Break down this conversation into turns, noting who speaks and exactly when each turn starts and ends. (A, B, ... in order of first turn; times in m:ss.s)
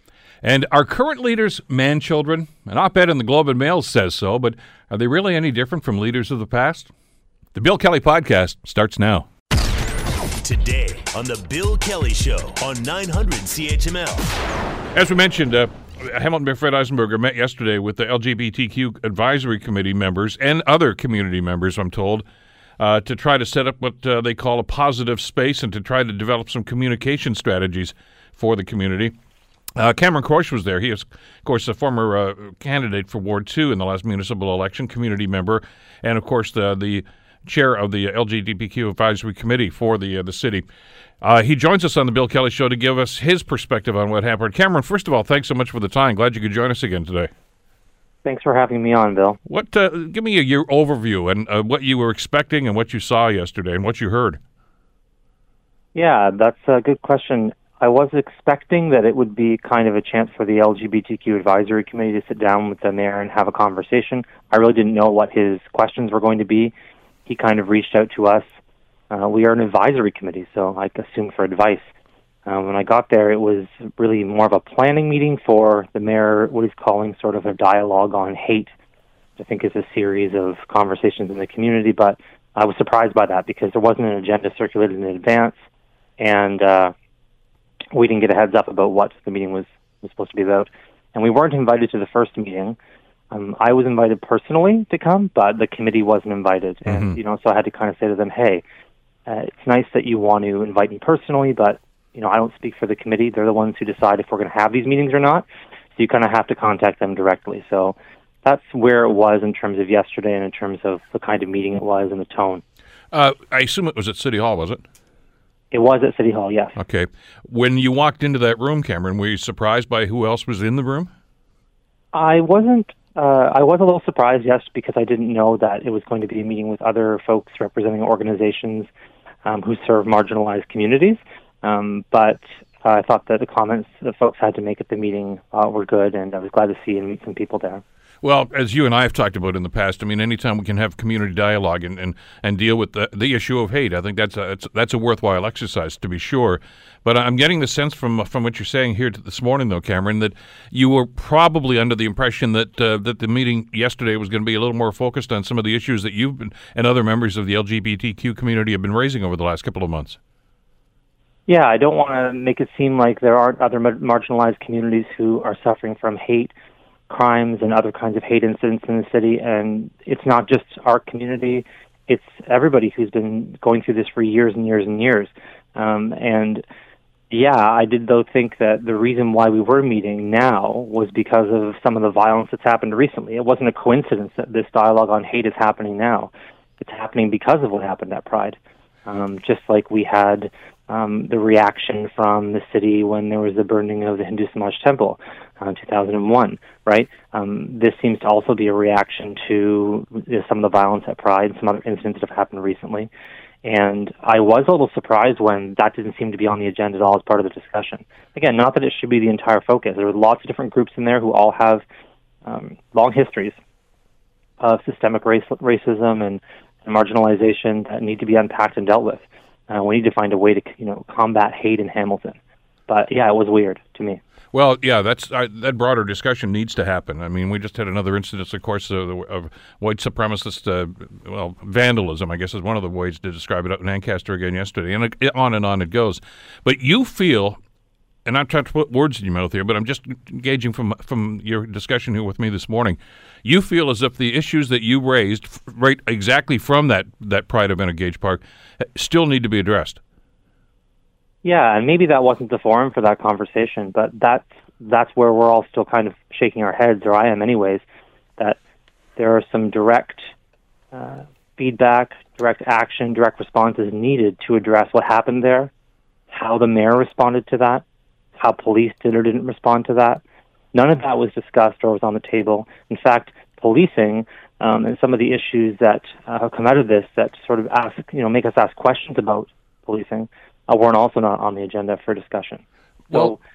0:00.4-0:06.9 A
0:07.5-0:09.3 A
0:10.1-0:14.5 B
0:14.9-0:22.2 A
0:22.8-0:29.1 A
0:29.8-0:40.6 A
0:41.2-0:47.3 A
0:48.2-0:49.4 C
0:49.4-0:54.4 A
0:55.9-1:06.7 C
1:07.2-1:08.4 C
1:09.1-1:11.8 C
1:12.4-1:18.7 C
1:19.4-1:25.6 C
1:26.2-1:26.9 C
1:27.9-1:32.8 C
1:33.3-1:38.6 C
1:36.9-1:37.2 A
1:39.3-1:45.4 C
1:46.0-1:52.6 C
1:53.1-1:54.8 A
1:55.7-1:56.7 C
1:56.8-2:01.1 A
2:02.1-2:08.9 C
2:09.4-2:17.8 C
2:18.2-2:40.2 A
2:41.5-2:46.5 C
2:47.1-2:56.6 C
2:57.3-3:23.1 C
3:23.6-3:31.8 C
3:32.4-3:33.6 C
3:34.6-3:44.2 C
3:44.5-3:57.6 A
3:58.2-4:10.0 A
4:11.4-4:17.8 C
4:19.2-4:20.3 C
4:20.9-4:25.7 C
4:26.3-4:27.8 C
4:28.4-4:30.2 C
4:30.7-4:43.4 C